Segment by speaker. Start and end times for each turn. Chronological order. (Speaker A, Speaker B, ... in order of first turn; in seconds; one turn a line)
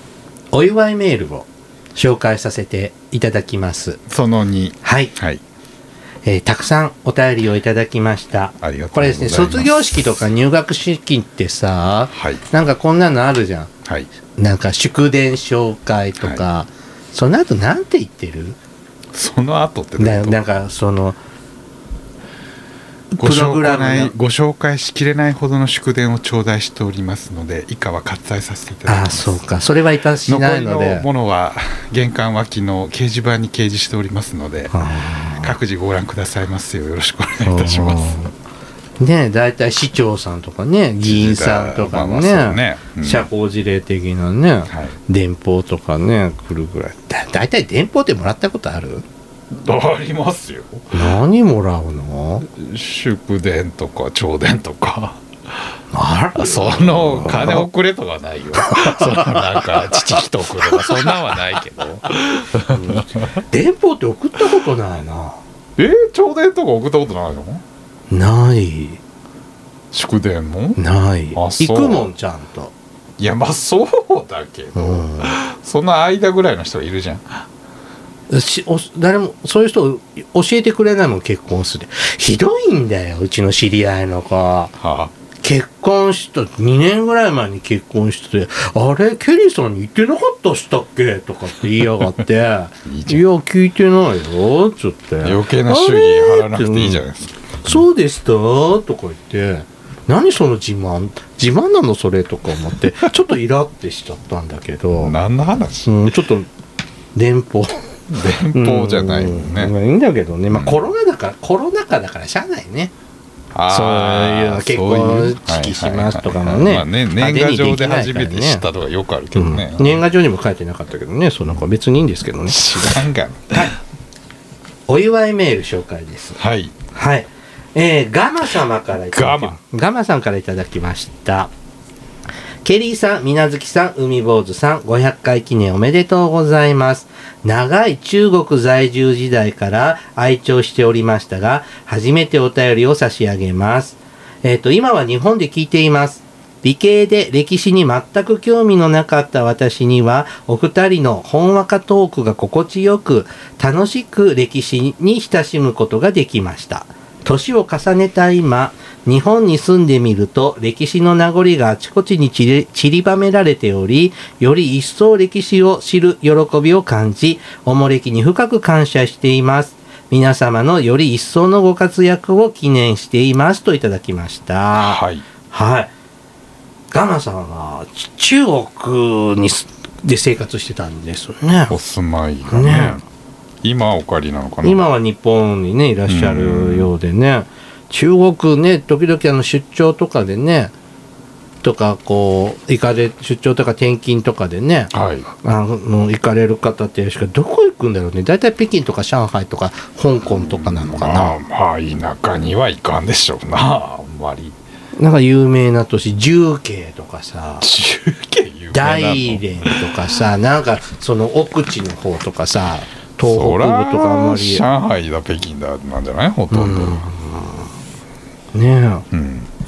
Speaker A: 0.5-4.0
Speaker B: 4.1-5.4
Speaker A: 4.8-5.1
Speaker A: 6.2-13.7
Speaker B: 8.6-9.8
Speaker B: 12.1-12.4
Speaker A: 14.4-18.6
Speaker B: 19.1-20.4
Speaker A: 20.0-21.2
Speaker B: 23.2-29.6
Speaker A: 23.2-24.1
Speaker A: 28.9-31.1
Speaker B: 30.3-34.7
Speaker A: 34.7-35.5
Speaker B: 35.4-38.2
Speaker A: 37.5-38.3
Speaker A: 39.0-49.0
Speaker B: 41.0-43.3
Speaker B: 44.7-45.0
Speaker B: 49.5-51.1
Speaker A: 50.9-52.5
Speaker B: 52.5-55.2
Speaker A: 55.9-57.6
Speaker B: 56.4-63.0
Speaker A: 58.6-60.0
Speaker A: 60.6-61.2
Speaker A: 62.6-65.4
Speaker B: 65.8-67.6
Speaker A: 68.1-69.0
Speaker B: 69.9-70.8
Speaker A: 70.8-72.7
Speaker B: 71.3-72.1
Speaker B: 73.2-77.3
Speaker A: 74.8-75.4
Speaker A: 78.3-84.8
Speaker B: 84.8-85.1
Speaker A: 85.4-97.0
Speaker B: 92.9-93.2
Speaker B: 95.2-97.8
Speaker A: 97.6-105.2
Speaker B: 105.0-106.0
Speaker A: 105.9-106.5
Speaker A: 107.2-107.9
Speaker B: 108.1-109.7
Speaker A: 108.5-112.9
Speaker B: 110.5-110.8
Speaker B: 113.5-120.0
Speaker A: 113.7-118.6
Speaker A: 119.3-123.0
Speaker B: 122.5-123.7
Speaker A: 124.9-126.4
Speaker B: 126.4-126.8
Speaker A: 127.0-131.5
Speaker B: 129.1-129.6
Speaker A: 132.6-175.9
Speaker B: 174.8-175.3
Speaker A: 176.9-181.8
Speaker B: 181.7-183.0
Speaker A: 182.5-183.0
Speaker B: 183.6-184.9
Speaker A: 184.6-190.7
Speaker B: 186.1-186.9
Speaker A: 191.6-201.4
Speaker B: 194.9-195.3
Speaker B: 200.2-204.6
Speaker A: 205.0-207.7
Speaker B: 207.6-210.2
Speaker A: 208.7-214.6
Speaker B: 213.2-217.0
Speaker A: 216.5-217.7
Speaker A: 218.5-219.1
Speaker B: 219.1-219.5